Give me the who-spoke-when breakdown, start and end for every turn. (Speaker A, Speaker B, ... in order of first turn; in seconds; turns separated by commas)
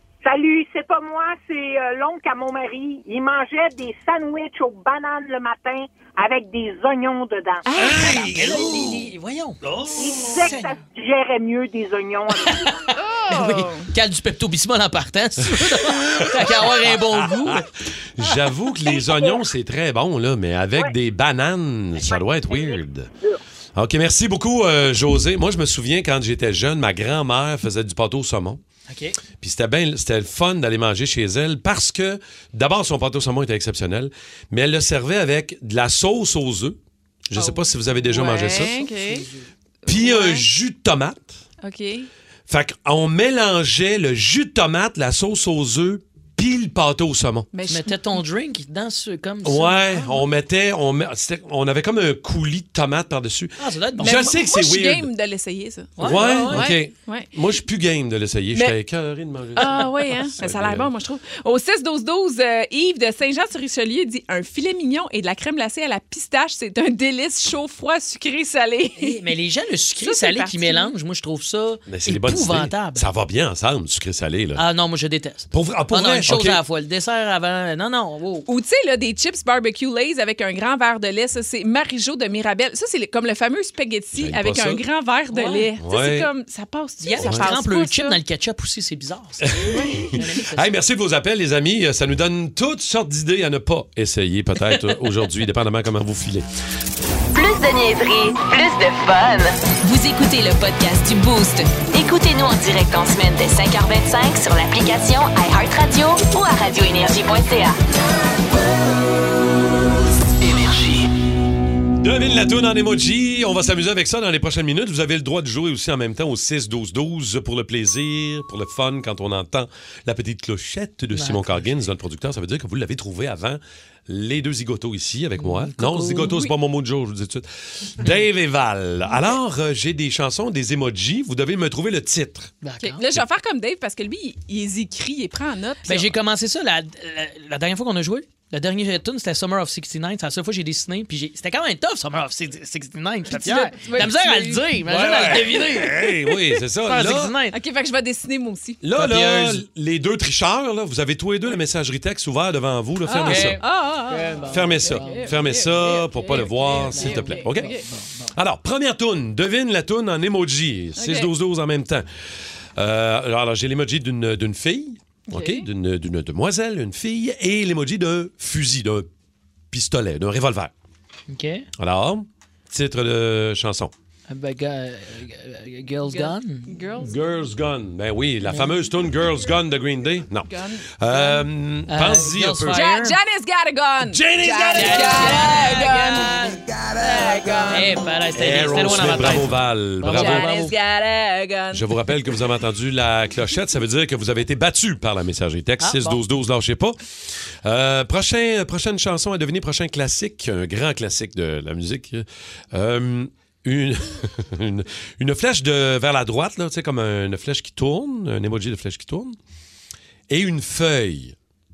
Speaker A: 0.2-7.7, Speaker B: 7.7-8.3, Speaker C: 7.8-9.1, Speaker D: 8.2-10.7, Speaker C: 9.6-9.9, Speaker A: 10.0-12.6, Speaker D: 12.5-17.7, Speaker B: 13.0-13.9, Speaker C: 15.8-17.1, Speaker C: 18.2-23.1, Speaker A: 19.1-19.4, Speaker A: 22.0-23.4, Speaker C: 23.8-28.6, Speaker D: 28.9-29.2, Speaker C: 29.4-36.8, Speaker C: 37.3-38.8, Speaker B: 37.3-39.3, Speaker D: 38.7-39.5, Speaker B: 39.9-40.5, Speaker C: 39.9-41.4, Speaker B: 41.6-42.1, Speaker C: 42.5-47.5, Speaker B: 47.5-48.0, Speaker D: 47.7-49.8, Speaker C: 49.4-55.1, Speaker B: 49.9-50.2, Speaker D: 53.6-54.3, Speaker B: 54.0-57.3, Speaker D: 56.0-56.7, Speaker C: 56.0-60.9, Speaker B: 59.6-69.2, Speaker D: 59.6-59.9, Speaker D: 69.0-73.1, Speaker B: 70.0-70.9, Speaker C: 71.9-74.6, Speaker D: 74.6-78.5, Speaker C: 75.5-76.6, Speaker B: 78.5-88.2, Speaker C: 84.1-84.8, Speaker D: 85.3-85.7, Speaker C: 85.8-86.3, Speaker D: 87.0-90.7, Speaker C: 87.2-87.5, Speaker C: 89.5-96.5, Speaker B: 89.7-90.2, Speaker E: 97.3-107.8, Speaker B: 99.9-101.6, Speaker C: 112.0-132.5, Speaker D: 121.1-121.8, Speaker D: 125.4-126.4, Speaker D: 132.6-133.0, Speaker B: 132.8-136.1, Speaker D: 135.9-146.1, Speaker B: 143.3-144.7, Speaker C: 144.9-147.4, Speaker D: 146.8-147.6, Speaker B: 147.5-148.8, Speaker C: 148.8-153.6, Speaker D: 148.9-149.6, Speaker B: 153.1-157.8, Speaker D: 153.2-155.4, Speaker C: 154.5-157.7, Speaker D: 156.9-158.3, Speaker C: 158.3-162.1, Speaker B: 161.0-161.3, Speaker C: 162.8-169.1, Speaker B: 165.3-165.7, Speaker C: 169.7-170.7, Speaker D: 171.3-171.7, Speaker C: 171.8-173.9, Speaker D: 174.3-177.0, Speaker B: 176.1-177.1, Speaker C: 177.0-182.8, Speaker D: 178.5-178.7, Speaker B: 180.5-181.4, Speaker D: 181.9-183.2, Speaker B: 182.7-187.9, Speaker C: 184.0-185.8, Speaker D: 184.7-186.7, Speaker D: 187.7-190.8, Speaker C: 188.4-190.5, Speaker B: 190.1-191.9, Speaker C: 191.7-197.0, Speaker D: 195.8-196.2, Speaker C: 197.6-209.4, Speaker C: 210.3-211.3